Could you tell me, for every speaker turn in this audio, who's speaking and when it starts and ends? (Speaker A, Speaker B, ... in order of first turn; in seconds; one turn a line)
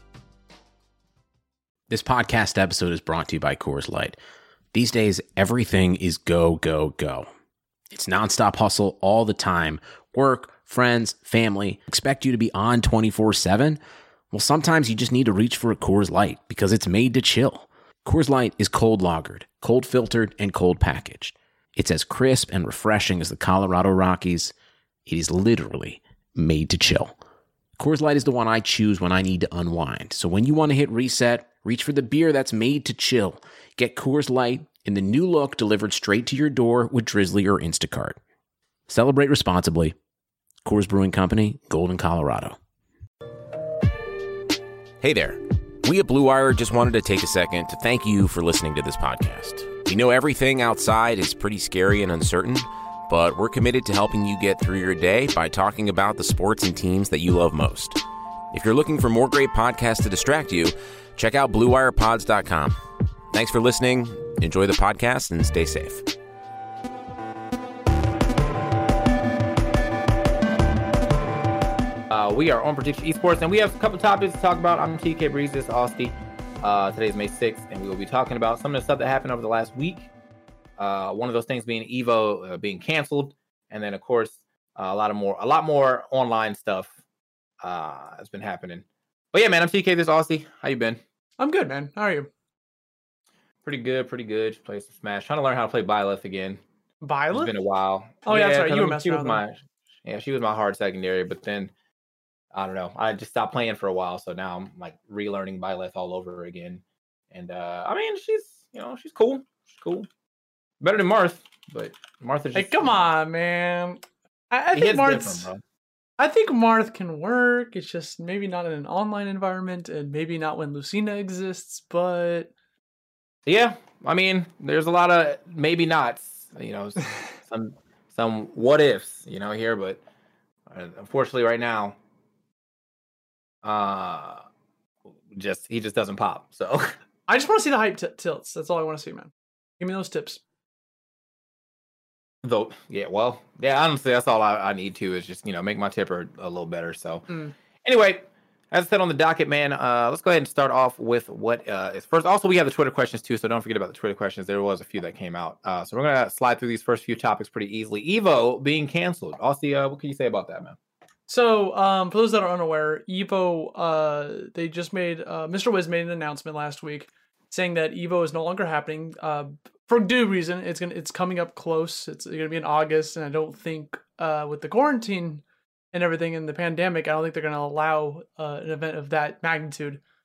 Speaker A: 1.9-4.2
Speaker A: 4.7-7.3
Speaker A: 7.9-13.8
Speaker A: 14.3-24.5
Speaker A: 25.1-27.1
Speaker A: 27.8-38.2
Speaker A: 38.9-39.9
Speaker A: 40.6-42.6
Speaker A: 45.0-58.0
Speaker A: 58.5-62.8
Speaker A: 63.3-66.0
Speaker B: 72.1-80.1
Speaker B: 80.8-86.9
Speaker B: 87.6-91.0
Speaker C: 91.4-92.3
Speaker B: 93.6-96.6
Speaker C: 97.0-97.5
Speaker B: 97.3-101.7
Speaker C: 98.2-99.4
Speaker B: 102.5-110.1
Speaker B: 110.8-113.0
Speaker C: 112.5-115.5
Speaker B: 114.7-115.6
Speaker C: 116.2-122.5
Speaker B: 123.5-130.0
Speaker B: 130.7-131.9
Speaker B: 133.6-134.4
Speaker B: 135.3-136.9
Speaker C: 137.3-140.4
Speaker B: 142.4-147.3
Speaker C: 147.3-147.5
Speaker B: 147.8-160.8
Speaker C: 161.3-180.0